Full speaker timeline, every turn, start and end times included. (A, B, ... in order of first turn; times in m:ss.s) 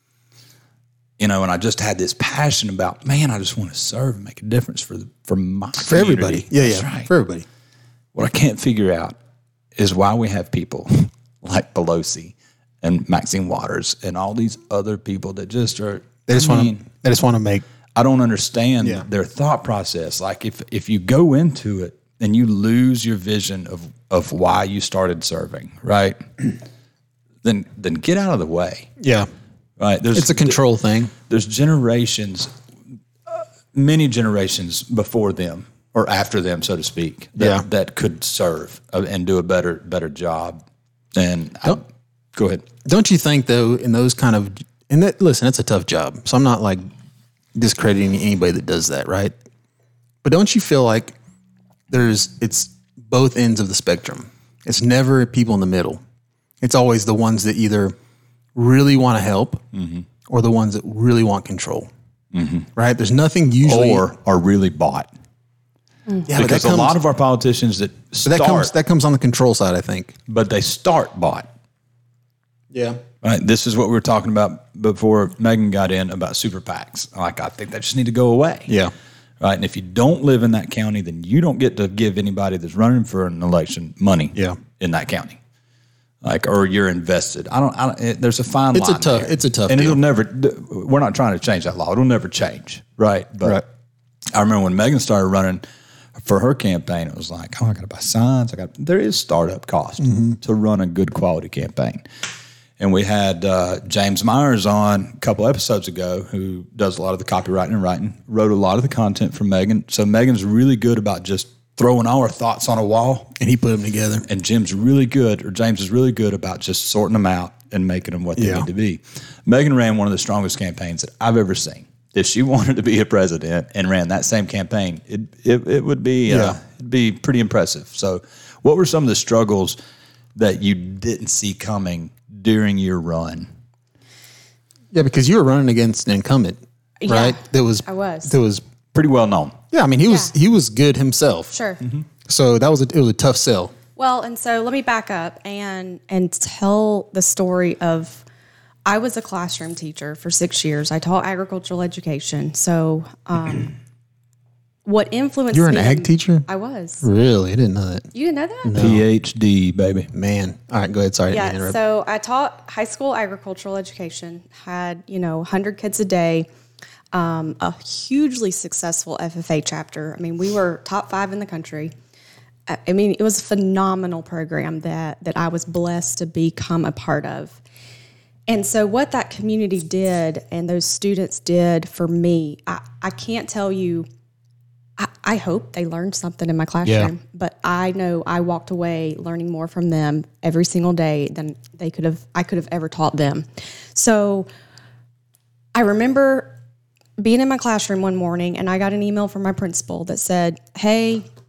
0:01.2-0:07.1 A
0:05.8-0:07.4 B
0:08.1-0:09.2 A
0:09.8-0:16.8 A
0:16.3-0:17.6 B
0:17.9-0:26.6 A
0:27.4-0:28.9 A
0:29.0-0:29.3 B
0:29.8-0:30.6 A
0:30.1-0:31.1 B
0:31.2-0:32.5 A
0:33.3-0:40.6 A
0:37.4-0:37.6 B
0:41.1-0:41.8 A
0:42.3-0:42.6 A
0:42.8-0:46.8 B
0:47.5-0:49.3 B
0:50.2-0:51.1 B
0:51.9-0:56.0 B
0:56.6-0:57.9 B
0:58.5-0:59.6 B
0:59.7-1:00.0 A
1:00.3-1:01.9 B
1:02.3-1:02.7 A
1:02.8-1:04.1 B
1:03.6-1:05.1 A
1:06.3-1:07.0 B
1:06.3-1:08.7 A
1:08.2-1:10.1 B
1:10.3-1:11.5 A
1:12.7-1:13.0 B
1:13.2-1:18.7 A
1:18.7-1:18.9 B
1:19.4-1:25.4 A
1:26.2-1:33.6 A
1:28.7-1:30.0 B
1:34.3-1:35.6 A
1:36.1-1:42.0 A
1:40.0-1:40.4 B
1:42.8-1:53.3 A
1:53.4-1:54.2 B
1:54.2-2:09.8 A
1:58.4-1:58.6 B
2:06.3-2:06.6 B
2:10.4-2:13.5 A
2:14.9-2:18.6 B
2:17.0-2:18.3 C
2:18.9-2:19.6 A
2:19.7-2:21.5 B
2:20.1-2:20.3 C
2:21.5-2:21.8 C
2:22.2-2:23.7 B
2:24.0-2:28.2 C
2:28.8-2:33.7 C
2:34.8-2:37.0 C
2:35.5-2:36.5 B
2:37.0-2:38.1 B
2:38.1-2:38.7 C
2:38.6-2:39.0 B
2:38.8-2:40.1 A
2:40.1-2:41.8 B
2:41.3-2:46.5 C
2:47.1-2:51.9 C
2:52.7-2:57.6 C
2:58.5-3:04.1 C
3:05.0-3:14.5 C
3:06.8-3:07.1 B
3:15.7-3:16.5 C
3:17.2-3:21.2 C